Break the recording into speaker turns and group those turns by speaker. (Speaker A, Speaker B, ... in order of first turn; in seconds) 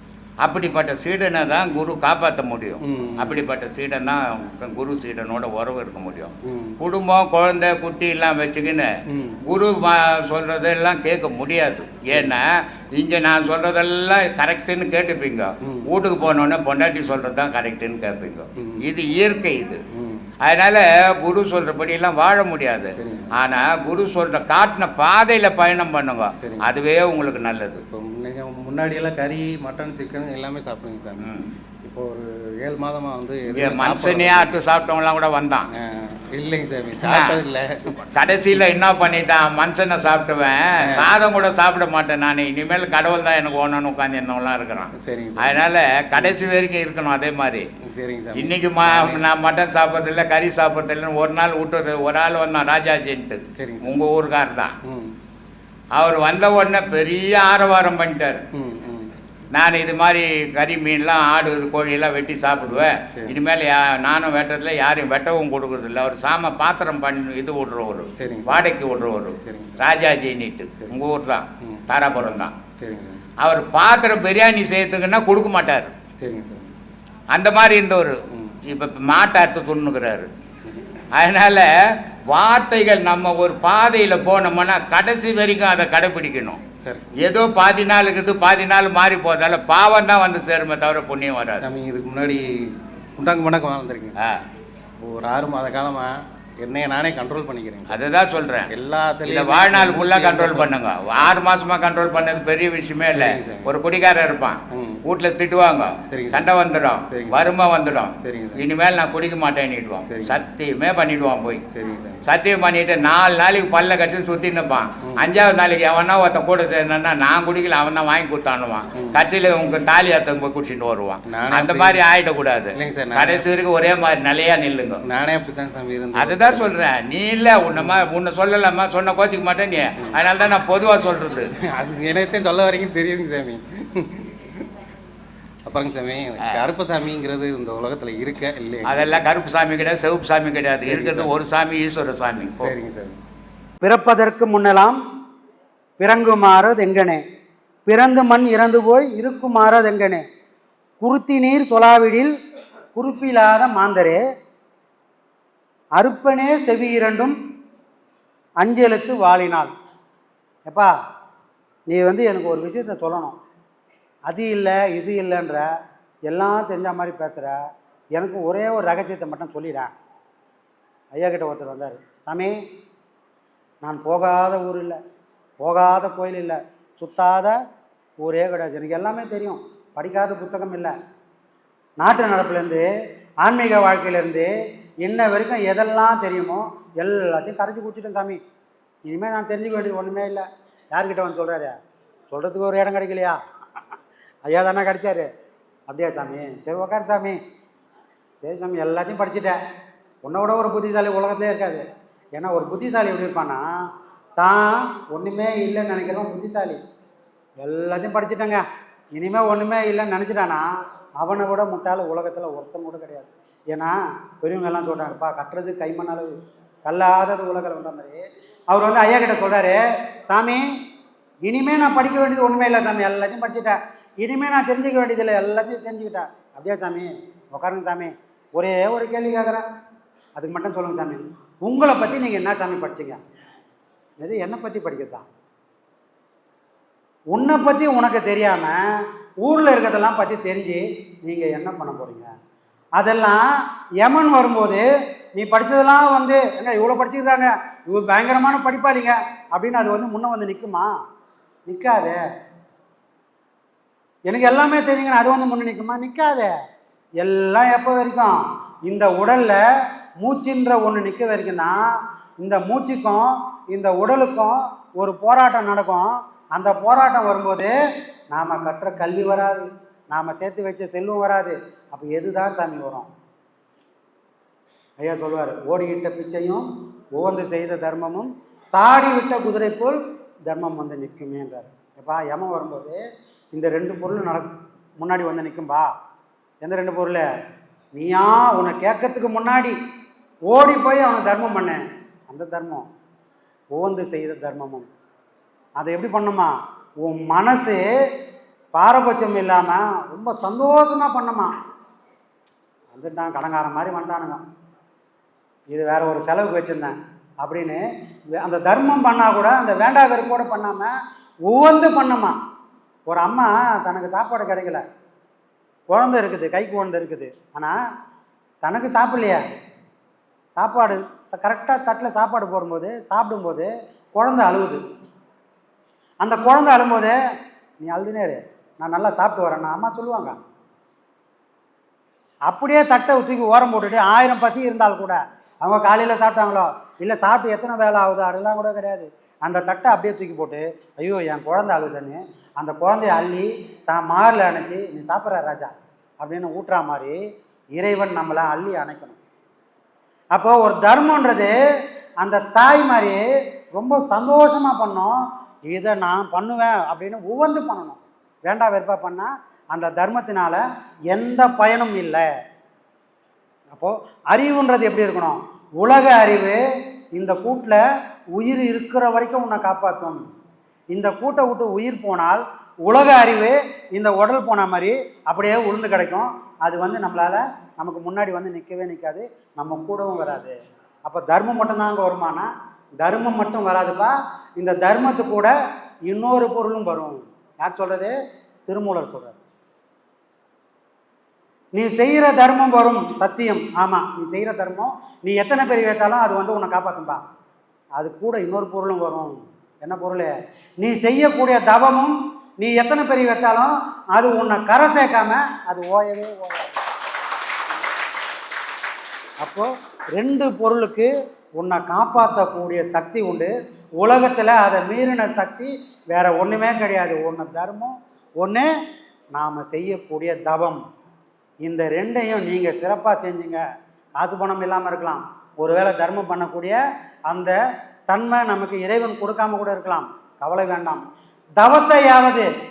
Speaker A: 0.4-8.9, 9.5-19.8, 20.4-27.8, 31.2-31.5, 33.5-35.7, 37.0-37.4, 38.1-47.6, 48.3-54.7, 55.9-58.4, 59.5-72.5, 73.4-75.9, 77.3-80.3, 81.2-81.7, 82.3-86.6, 87.2-91.6, 97.9-98.7, 99.2-111.6, 112.2-125.0, 126.2-131.5, 138.8-142.7
Speaker B: 2.9-3.4, 6.5-6.8, 9.1-9.4, 12.1-12.3, 19.9-20.3, 22.9-23.3, 26.4-26.7, 27.9-31.3, 31.8-34.6, 35.8-38.0, 45.0-45.5, 47.8-49.2, 53.6-53.9, 54.9-55.1, 58.5-59.1, 63.1-63.4, 68.2-68.7, 69.4-69.8, 72.8-73.2, 76.2-76.7, 86.8-87.2, 91.6-94.2, 95.0-98.0, 98.7-100.7, 103.1-103.7, 104.7-105.0, 106.1-106.4, 107.1-107.5, 108.2-108.6, 110.1-110.4, 111.7-112.2, 121.3-122.0, 122.8-123.4, 125.0-126.7, 127.8-128.0, 131.7-134.7, 135.7-139.2, 140.8-141.3, 142.6-143.2
Speaker C: 143.8-145.0, 146.0-147.2, 147.9-150.2, 151.0-152.3, 152.9-154.2, 156.0-157.3, 158.6-159.7, 161.9-163.4, 164.3-165.6, 166.3-167.6, 168.2-169.9, 171.1-172.5, 173.8-175.0, 175.6-177.6, 178.2-180.9, 182.0-182.9, 183.4-184.5, 185.0-188.4, 189.1-191.7, 192.3-193.4, 194.4-195.3, 195.9-197.4, 198.4-199.6, 200.2-201.8, 202.3-203.6, 204.4-206.8, 207.6-208.6, 209.1-210.7, 211.2-216.3, 216.8-219.8, 220.3-220.6, 221.4-229.6, 230.4-233.2, 234.2-235.2, 237.3-238.8, 239.4-242.3, 243.0-243.4, 244.0-250.9, 251.7-252.2, 254.3-256.5, 257.2-258.3, 258.9-259.6, 260.2-261.8, 262.4-267.7, 268.3-273.1, 275.0-283.0, 283.5-285.9, 286.6-287.2, 287.9-289.7, 290.5-292.8, 293.7-294.9, 295.8-297.8, 298.7-301.5, 302.9-304.4, 305.7-307.8, 308.4-310.9, 311.5-312.3, 313.1-314.8, 315.9-317.7, 318.6-319.4, 320.6-324.8, 326.2-327.1, 327.8-330.3, 332.5-347.2, 347.8-349.2, 350.3-351.5, 352.2-353.2, 353.8-362.2, 363.7-366.6, 367.1-367.8, 368.3-370.2, 370.9-380.5, 381.1-382.5, 383.0-385.5, 386.1-388.1, 388.7-389.4, 391.7-397.2, 398.0-406.8, 409.4-418.7, 419.3-420.8, 421.6-423.6, 424.2-426.8, 427.3-427.6, 428.1-431.0, 431.6-432.5